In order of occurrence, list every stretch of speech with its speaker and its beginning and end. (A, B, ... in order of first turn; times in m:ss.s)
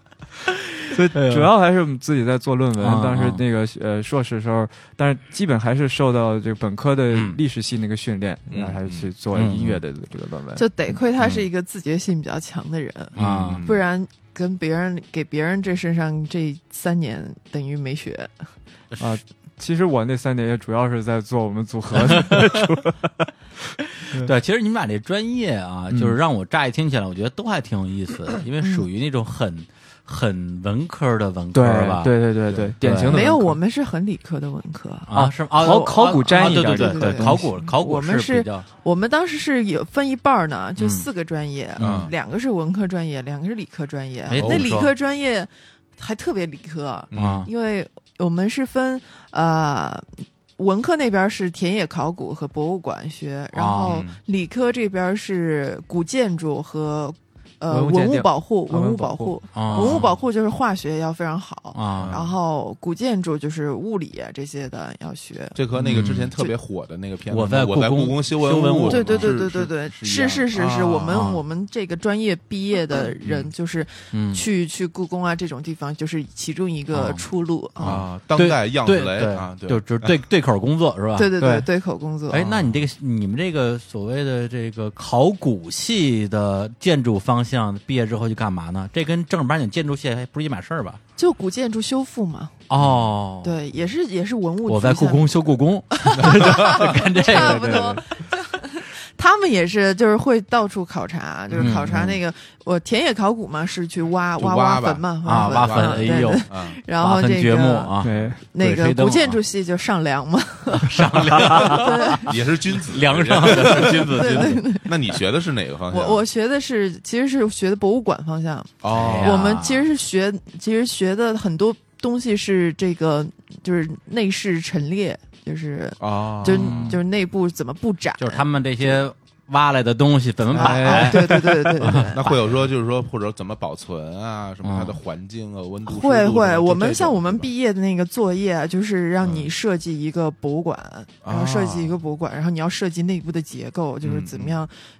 0:00.5-0:01.5 A
0:00.9-0:10.6 B
0:02.8-0:03.4 A
0:07.1-0:07.4 A
0:08.5-0:09.1 C
0:09.3-0:09.8 A
0:10.5-0:18.3 D
0:11.2-0:11.5 A
0:13.1-0:13.8 C
0:13.2-0:13.7 A
0:19.0-0:23.3 B
0:21.9-0:22.6 A
0:24.1-0:33.2 A
0:28.6-0:28.9 D
0:31.5-0:33.6 B
0:33.1-0:35.1 D
0:35.1-0:38.6 A
0:35.1-0:37.5 B
0:36.0-0:50.0 D
0:40.8-0:41.1 A
0:41.8-0:42.1 A
0:41.8-0:42.1 C
0:44.3-0:44.9 A
0:44.3-0:44.8 C
0:47.1-0:47.4 C
0:47.1-0:47.5 A
0:50.6-1:06.5 D
0:53.5-0:54.0 A
0:53.8-0:54.2 C
0:57.7-0:59.7 B
0:59.5-1:00.1 A
0:59.7-1:00.0 C
1:01.7-1:02.2 A
1:02.0-1:02.3 C
1:05.5-1:11.3 C
1:05.8-1:06.3 A
1:07.3-1:09.4 A
1:08.9-1:18.0 D
1:11.1-1:11.4 A
1:13.2-1:13.5 C
1:14.1-1:14.4 A
1:16.9-1:17.2 A
1:17.8-1:20.2 C
1:17.8-1:21.6 A
1:21.1-1:22.6 D
1:22.3-1:31.0 A
1:31.2-1:32.6 D
1:32.7-1:33.6 A
1:32.8-1:33.1 C
1:33.4-1:48.0 D
1:34.6-1:38.0 A
1:36.2-1:36.9 C
1:37.3-1:37.8 B
1:41.5-1:42.0 C
1:41.5-1:42.2 A
1:44.4-1:46.8 C
1:45.2-1:49.4 A
1:48.0-1:48.4 B
1:48.5-1:52.4 D
1:50.7-1:54.6 A
1:51.5-1:56.2 C
1:53.4-1:55.2 D
1:55.9-2:09.0 D
1:58.8-1:59.6 C
1:58.9-1:59.9 A
2:06.0-2:07.0 C
2:06.4-2:07.0 A
2:08.2-2:12.3 A
2:10.5-2:10.9 C
2:10.5-2:12.4 D
2:10.6-2:11.2 B
2:12.1-2:17.5 C
2:14.6-2:15.0 A
2:15.9-2:24.8 D
2:19.2-2:19.5 C
2:21.2-2:22.0 C
2:24.0-2:24.6 C